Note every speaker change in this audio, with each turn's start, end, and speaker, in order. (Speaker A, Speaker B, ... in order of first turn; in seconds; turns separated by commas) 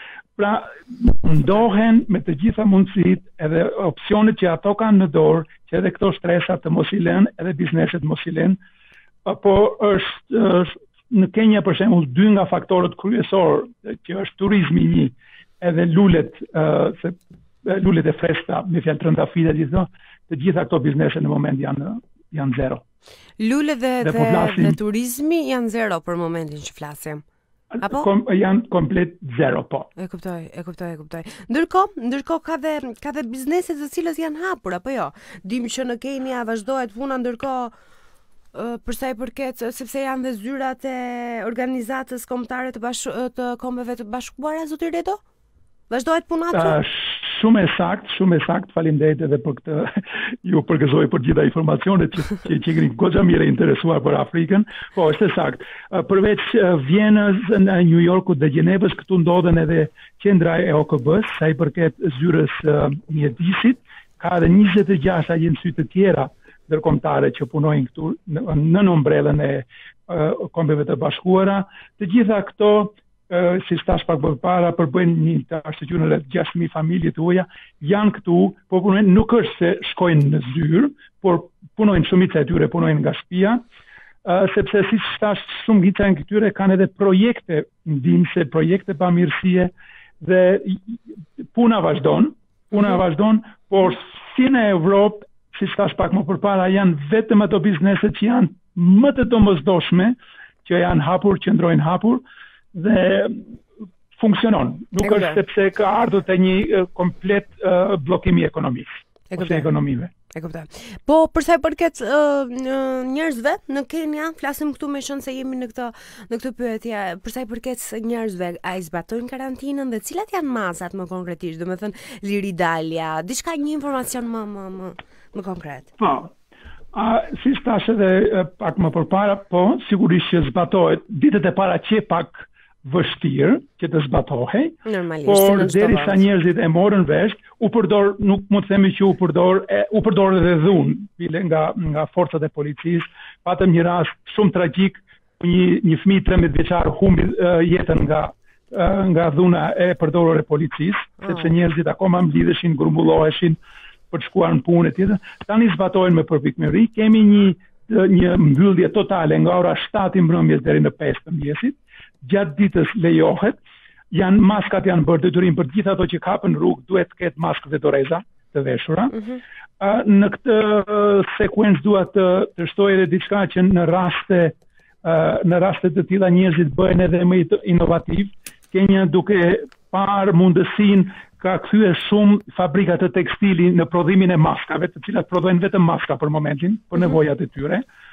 Speaker A: 0.4-8.6, Speaker A: 9.2-22.8, Speaker B: 23.4-27.2, Speaker A: 24.0-24.8, Speaker A: 27.7-29.9, Speaker B: 27.8-28.1, Speaker B: 30.0-37.7, Speaker B: 38.5-45.2, Speaker B: 45.9-46.8, Speaker A: 46.5-83.6, Speaker A: 84.2-91.0, Speaker A: 91.5-103.6, Speaker A: 104.1-110.1, Speaker B: 105.0-105.4, Speaker B: 109.3-109.7, Speaker B: 110.3-125.9, Speaker A: 126.0-126.3, Speaker A: 126.9-153.6, Speaker B: 134.8-136.2, Speaker A: 154.1-163.6, Speaker A: 164.1-169.3, Speaker A: 169.8-187.8